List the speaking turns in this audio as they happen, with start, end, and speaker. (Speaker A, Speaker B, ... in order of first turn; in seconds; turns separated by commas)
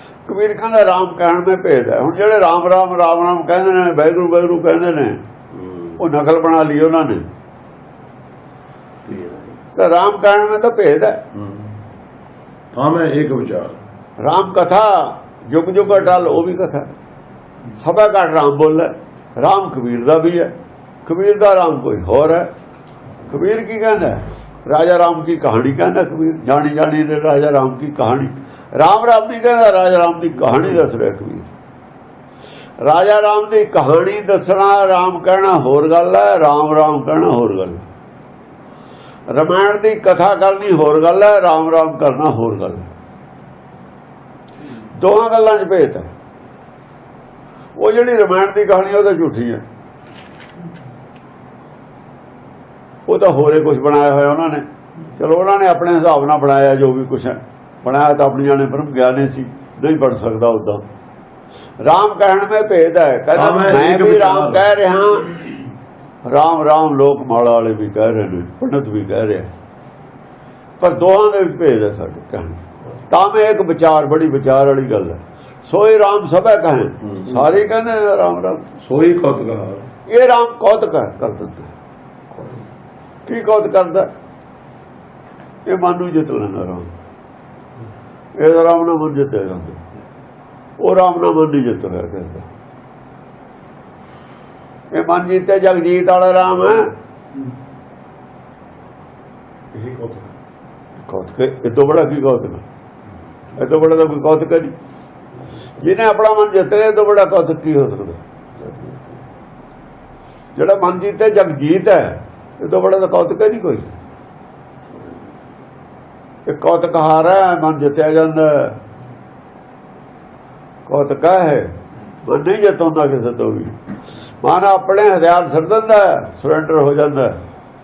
Speaker A: 0.3-5.2, Speaker A: 6.0-7.2, Speaker A: 9.8-11.2, Speaker B: 11.3-11.7, Speaker B: 12.7-13.8, Speaker A: 14.2-16.9, Speaker A: 17.8-20.5, Speaker A: 21.1-22.5, Speaker A: 23.3-31.5, Speaker A: 32.8-37.8, Speaker A: 39.3-42.9, Speaker A: 45.0-46.1, Speaker A: 47.8-49.6, Speaker A: 53.1-54.6, Speaker A: 55.2-60.8, Speaker A: 61.8-65.4, Speaker B: 63.4-64.7, Speaker A: 66.2-69.5, Speaker A: 70.8-78.6, Speaker B: 77.1-77.4, Speaker B: 78.8-79.9, Speaker A: 80.1-81.7, Speaker A: 83.3-84.1, Speaker A: 85.7-86.9, Speaker A: 88.4-89.8, Speaker A: 90.8-92.5, Speaker A: 94.9-96.9, Speaker B: 99.7-100.3, Speaker A: 101.0-102.6, Speaker A: 103.6-104.7, Speaker A: 105.8-108.2, Speaker A: 110.5-113.9, Speaker A: 116.5-118.8, Speaker A: 120.9-121.7, Speaker A: 122.3-123.8, Speaker A: 124.4-127.3